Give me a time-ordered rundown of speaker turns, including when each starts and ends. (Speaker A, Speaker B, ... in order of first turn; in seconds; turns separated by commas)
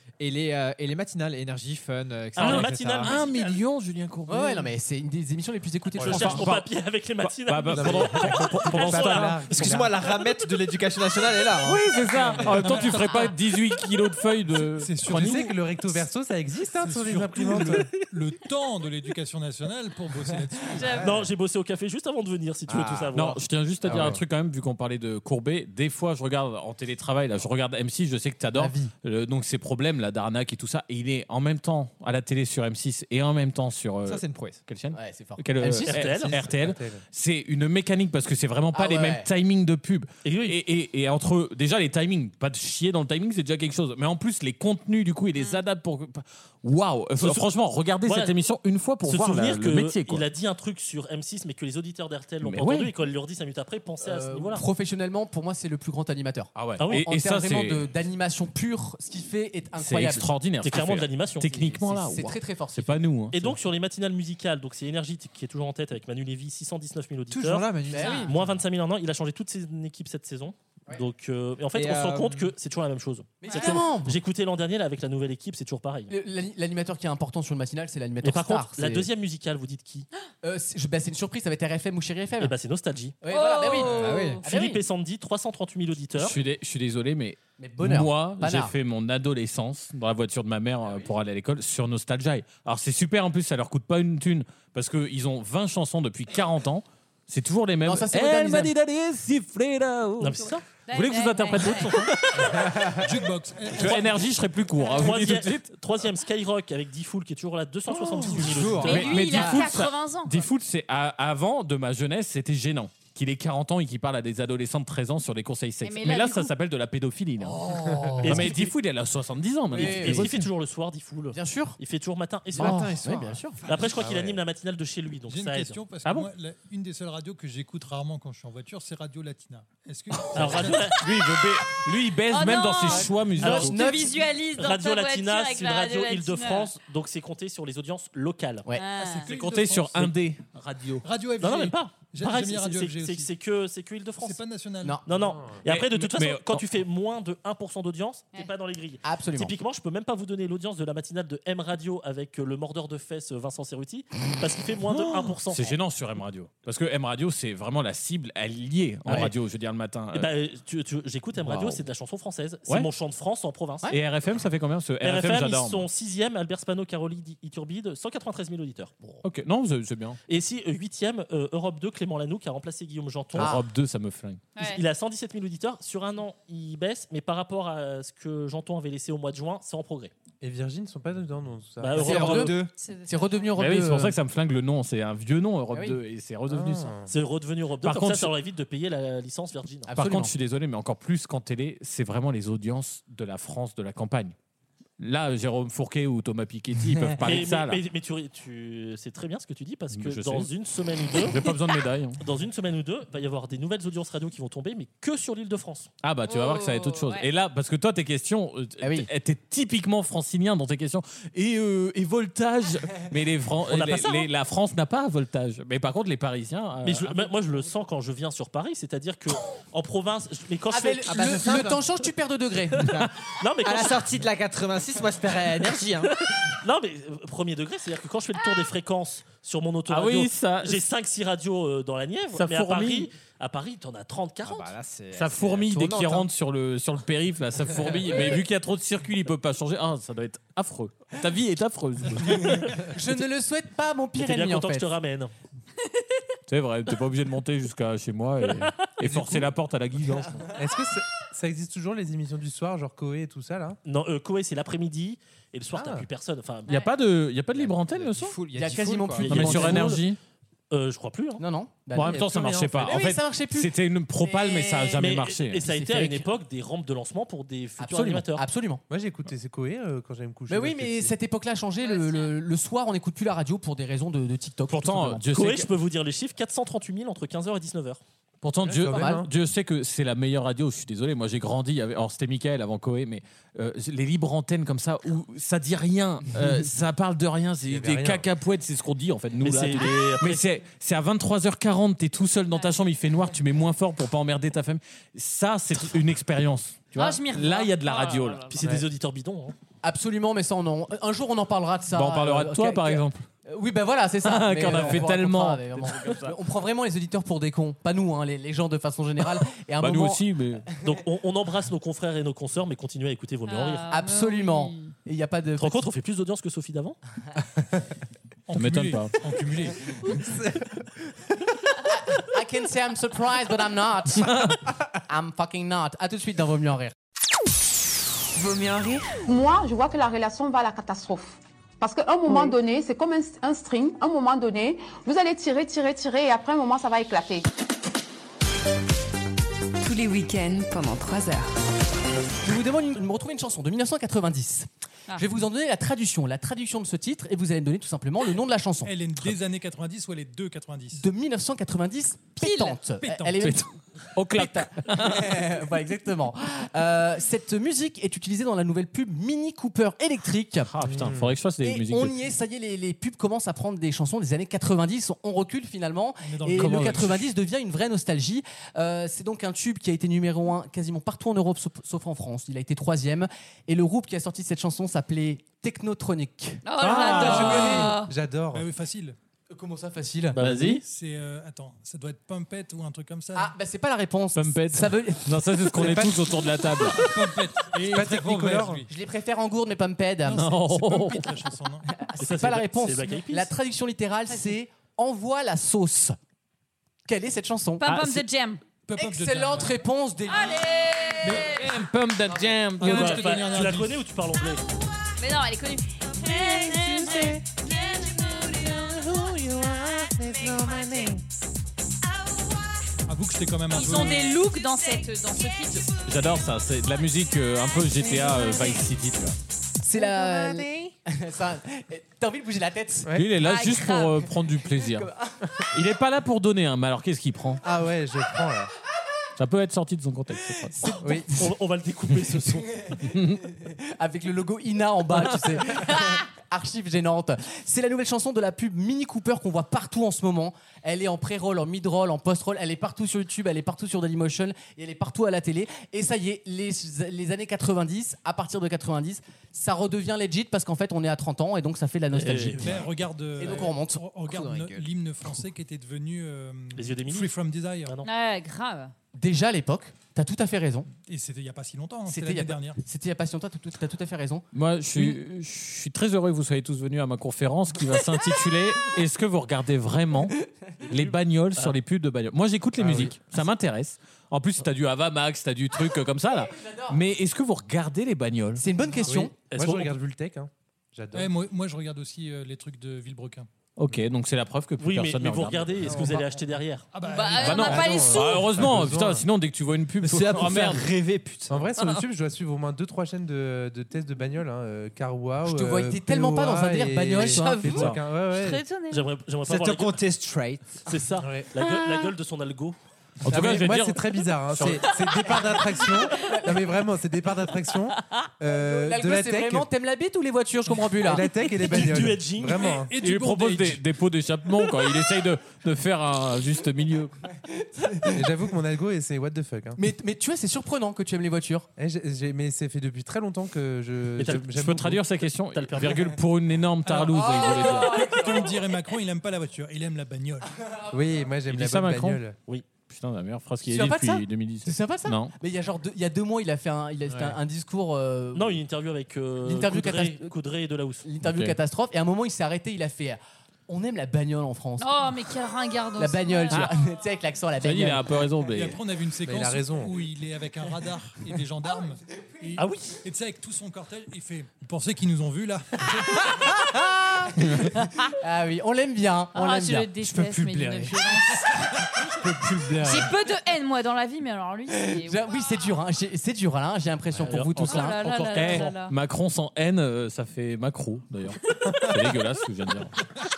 Speaker A: 0.2-3.2, Speaker B: 2.4-3.3, Speaker C: 2.4-4.7, Speaker D: 4.3-6.5, Speaker E: 6.0-6.3, Speaker B: 6.0-9.8, Speaker C: 6.2-6.6, Speaker C: 7.2-9.4, Speaker E: 7.7-10.0, Speaker A: 8.9-11.9, Speaker C: 11.6-15.5, Speaker F: 12.1-13.4, Speaker E: 12.2-12.5, Speaker F: 14.5-15.6, Speaker E: 15.0-17.9, Speaker F: 16.8-21.1, Speaker G: 20.8-21.2, Speaker B: 21.0-23.4, Speaker E: 21.0-21.3, Speaker A: 22.7-23.1, Speaker C: 23.1-50.3, Speaker A: 23.8-24.2, Speaker D: 28.5-28.9, Speaker A: 34.0-34.6, Speaker D: 34.9-36.3, Speaker B: 35.9-36.4, Speaker E: 36.3-37.0, Speaker D: 38.7-39.3, Speaker B: 40.2-40.6, Speaker G: 45.4-45.6, Speaker B: 47.2-47.4, Speaker B: 48.0-48.3, Speaker B: 49.0-54.6, Speaker C: 52.4-52.9, Speaker D: 54.0-60.3, Speaker C: 56.5-57.9, Speaker B: 56.8-57.0, Speaker C: 59.8-63.5, Speaker B: 60.6-61.5, Speaker D: 61.4-63.0, Speaker B: 63.3-76.1, Speaker A: 67.3-68.2, Speaker D: 67.9-68.3, Speaker G: 68.0-68.3, Speaker A: 71.7-72.5, Speaker D: 73.4-74.2, Speaker G: 73.5-73.8, Speaker D: 76.1-79.1, Speaker B: 78.2-80.1, Speaker D: 80.4-82.5, Speaker B: 82.4-83.2, Speaker D: 83.2-84.8, Speaker G: 83.3-84.4, Speaker A: 83.9-84.4, Speaker B: 84.4-86.4, Speaker C: 86.2-102.9, Speaker D: 87.6-88.7, Speaker D: 97.8-98.7, Speaker B: 100.2-100.7, Speaker G: 100.8-102.1, Speaker B: 101.6-102.0, Speaker F: 102.9-104.3, Speaker C: 103.7-105.7, Speaker B: 105.0-109.5, Speaker A: 108.2-109.7, Speaker G: 108.8-110.5, Speaker C: 108.9-117.7, Speaker G: 115.8-116.5, Speaker D: 117.6-118.5, Speaker E: 117.7-118.4, Speaker B: 118.2-118.7, Speaker C: 118.2-120.5, Speaker D: 119.7-120.4, Speaker B: 119.7-122.8, Speaker D: 121.3-121.8, Speaker D: 122.6-123.6, Speaker A: 122.6-123.7, Speaker C: 122.6-123.1, Speaker B: 123.7-125.8, Speaker E: 123.8-124.4, Speaker F: 125.3-130.9, Speaker C: 126.0-126.3, Speaker B: 130.3-131.1, Speaker C: 130.9-133.8, Speaker G: 132.3-136.7, Speaker B: 133.4-133.7, Speaker D: 133.4-134.3, Speaker B: 134.6-138.7, Speaker G: 138.7-139.3, Speaker F: 139.0-140.2, Speaker C: 139.2-141.0, Speaker F: 141.0-143.3, Speaker B: 141.4-144.4, Speaker F: 144.2-145.0, Speaker B: 145.1-155.8, Speaker E: 145.1-145.6, Speaker C: 145.7-146.7, Speaker D: 149.0-149.5, Speaker C: 155.2-160.3, Speaker B: 159.1-159.3, Speaker B: 160.1-163.9, Speaker C: 161.4-161.8, Speaker C: 163.9-165.9, Speaker B: 165.0-169.2, Speaker C: 169.2-170.2, Speaker B: 170.3-173.5, Speaker C: 173.3-174.4, Speaker D: 173.4-173.7, Speaker G: 174.6-174.8, Speaker B: 174.6-180.1, Speaker E: 180.4-182.4, Speaker B: 181.8-182.6, Speaker A: 181.9-182.7, Speaker D: 182.0-184.2, Speaker G: 182.7-183.5, Speaker C: 183.6-186.9, Speaker D: 185.7-186.0, Speaker E: 186.5-187.1, Speaker B: 187.1-189.9, Speaker C: 187.8-188.3, Speaker D: 189.9-190.3, Speaker C: 189.9-194.3, Speaker C: 195.0-197.8, Speaker B: 197.2-201.5, Speaker C: 199.9-200.5, Speaker C: 201.3-202.2, Speaker B: 202.2-205.9, Speaker C: 206.0-217.3, Speaker G: 206.2-207.3, Speaker D: 208.8-209.1, Speaker B: 213.7-214.3, Speaker B: 216.8-221.5, Speaker D: 220.7-222.8, Speaker A: 221.1-221.8, Speaker B: 223.3-224.1, Speaker A: 223.6-226.1, Speaker B: 226.0-234.7, Speaker C: 229.9-230.8, Speaker C: 232.3-233.1, Speaker A: 234.4-236.3, Speaker C: 235.1-242.7, Speaker D: 242.4-244.9, Speaker B: 244.2-245.3, Speaker C: 246.5-250.5, Speaker B: 248.4-248.9, Speaker E: 249.0-249.5, Speaker E: 250.5-253.8, Speaker B: 253.8-256.7, Speaker E: 255.8-256.1, Speaker G: 256.7-256.9, Speaker C: 256.7-258.4, Speaker A: 257.5-259.9, Speaker D: 258.5-259.9, Speaker B: 259.2-260.0, Speaker C: 259.3-260.2, Speaker B: 260.7-261.4, Speaker D: 261.4-262.3, Speaker C: 261.9-265.6, Speaker E: 262.0-263.0, Speaker D: 262.8-266.3, Speaker B: 265.0-268.4, Speaker D: 267.8-268.8, Speaker E: 268.9-271.1, Speaker D: 270.5-275.2, Speaker G: 271.8-272.3, Speaker C: 274.7-275.7, Speaker B: 275.3-278.0, Speaker C: 278.4-298.5, Speaker E: 278.6-279.3, Speaker D: 278.9-279.2, Speaker E: 287.7-288.3, Speaker B: 289.4-290.4, Speaker G: 292.5-292.8, Speaker G: 296.9-298.7, Speaker B: 298.5-299.6, Speaker D: 299.8-310.3, Speaker C: 301.9-303.3, Speaker C: 304.2-306.3, Speaker C: 309.8-310.7, Speaker B: 310.8-313.9, Speaker G: 313.5-314.9, Speaker D: 313.9-315.9, Speaker B: 315.6-317.0, Speaker F: 318.5-319.9, Speaker C: 318.5-319.2, Speaker E: 320.2-320.7, Speaker D: 321.9-324.5, Speaker C: 324.2-324.6, Speaker D: 325.1-326.9, Speaker H: 328.4-329.1, Speaker I: 329.3-337.5, Speaker H: 339.8-341.5, Speaker D: 342.4-349.0, Speaker F: 348.8-351.1, Speaker D: 350.9-353.7, Speaker G: 352.4-352.8, Speaker F: 352.9-353.4, Speaker C: 353.4-355.4, Speaker D: 354.3-360.7, Speaker C: 360.7-362.2, Speaker E: 360.8-361.3, Speaker D: 361.6-377.9, Speaker F: 366.2-367.3, Speaker G: 376.6-378.1, Speaker E: 376.8-378.7, Speaker F: 377.0-377.9, Speaker F: 378.5-379.2, Speaker D: 379.5-380.4, Speaker B: 380.4-380.7, Speaker C: 380.4-380.8, Speaker F: 380.7-383.5, Speaker D: 383.4-386.1, Speaker C: 384.4-387.1, Speaker E: 385.8-386.2, Speaker F: 386.9-388.9, Speaker E: 387.7-388.9, Speaker D: 388.9-390.4, Speaker F: 390.3-391.9, Speaker C: 390.3-391.3, Speaker D: 391.9-396.2, Speaker B: 392.2-393.5, Speaker D: 397.1-397.9, Speaker G: 397.8-398.6, Speaker C: 397.9-398.2, Speaker F: 398.9-399.8, Speaker D: 399.0-401.4, Speaker G: 400.3-401.8, Speaker F: 401.2-401.6, Speaker C: 401.5-403.3, Speaker D: 402.3-402.6, Speaker F: 402.8-404.0, Speaker B: 402.8-404.6, Speaker G: 405.2-408.8, Speaker A: 406.7-407.2, Speaker A: 410.4-411.1, Speaker F: 413.1-414.3, Speaker G: 413.7-416.0, Speaker C: 416.0-419.4, Speaker G: 418.2-418.8, Speaker D: 419.8-423.1, Speaker A: 420.3-420.6, Speaker C: 423.1-425.1, Speaker G: 423.4-424.2, Speaker D: 424.8-425.6, Speaker C: 425.7-427.6, Speaker E: 427.6-428.7, Speaker C: 429.4-430.9, Speaker D: 430.6-431.3, Speaker E: 431.0-431.3, Speaker B: 431.4-432.8, Speaker C: 433.1-433.4, Speaker D: 433.5-452.8, Speaker B: 452.1-452.9, Speaker F: 452.6-458.0, Speaker D: 453.4-454.0, Speaker A: 454.2-454.9, Speaker B: 456.8-457.3, Speaker G: 458.0-458.9, Speaker D: 459.1-460.9, Speaker F: 461.1-462.8, Speaker D: 462.1-464.5, Speaker C: 464.5-470.4, Speaker C: 470.9-478.6, Speaker E: 472.8-473.2, Speaker D: 476.5-477.0, Speaker D: 478.6-479.3, Speaker E: 479.0-481.3, Speaker B: 479.5-479.9, Speaker F: 481.1-483.5, Speaker C: 483.8-485.9, Speaker B: 484.8-486.9, Speaker F: 485.9-486.4, Speaker F: 486.9-487.8, Speaker G: 487.0-488.6, Speaker C: 487.3-490.9, Speaker E: 487.4-489.3, Speaker A: 490.0-491.7, Speaker E: 491.5-498.6, Speaker D: 495.4-497.6, Speaker G: 497.2-499.1, Speaker B: 498.9-500.0, Speaker A: 499.5-500.8, Speaker B: 500.9-502.8, Speaker E: 501.2-501.5, Speaker C: 503.2-504.8, Speaker E: 503.3-509.7, Speaker G: 505.4-506.1, Speaker D: 508.5-512.1, Speaker E: 511.0-512.9, Speaker B: 511.6-512.8, Speaker F: 512.6-513.8, Speaker C: 513.0-517.1, Speaker D: 517.6-518.2, Speaker E: 518.0-519.8, Speaker D: 519.8-521.7, Speaker E: 521.8-525.0, Speaker B: 524.2-524.6, Speaker C: 524.5-528.0, Speaker B: 525.5-526.1, Speaker F: 526.9-530.5, Speaker D: 527.3-527.8, Speaker E: 530.9-532.4, Speaker C: 531.5-532.2, Speaker C: 532.8-535.3, Speaker D: 533.7-538.6, Speaker B: 538.3-541.0, Speaker D: 539.5-540.3, Speaker D: 541.0-545.1, Speaker C: 541.2-541.6, Speaker G: 544.8-546.8, Speaker D: 546.0-548.1, Speaker C: 547.6-548.7, Speaker F: 548.5-556.5, Speaker E: 549.2-550.0, Speaker B: 552.6-553.0, Speaker D: 557.0-561.0, Speaker G: 559.3-561.7, Speaker D: 562.0-563.1, Speaker G: 562.8-565.2, Speaker D: 564.7-568.0, Speaker B: 567.2-568.8, Speaker G: 567.7-569.0, Speaker C: 568.1-572.9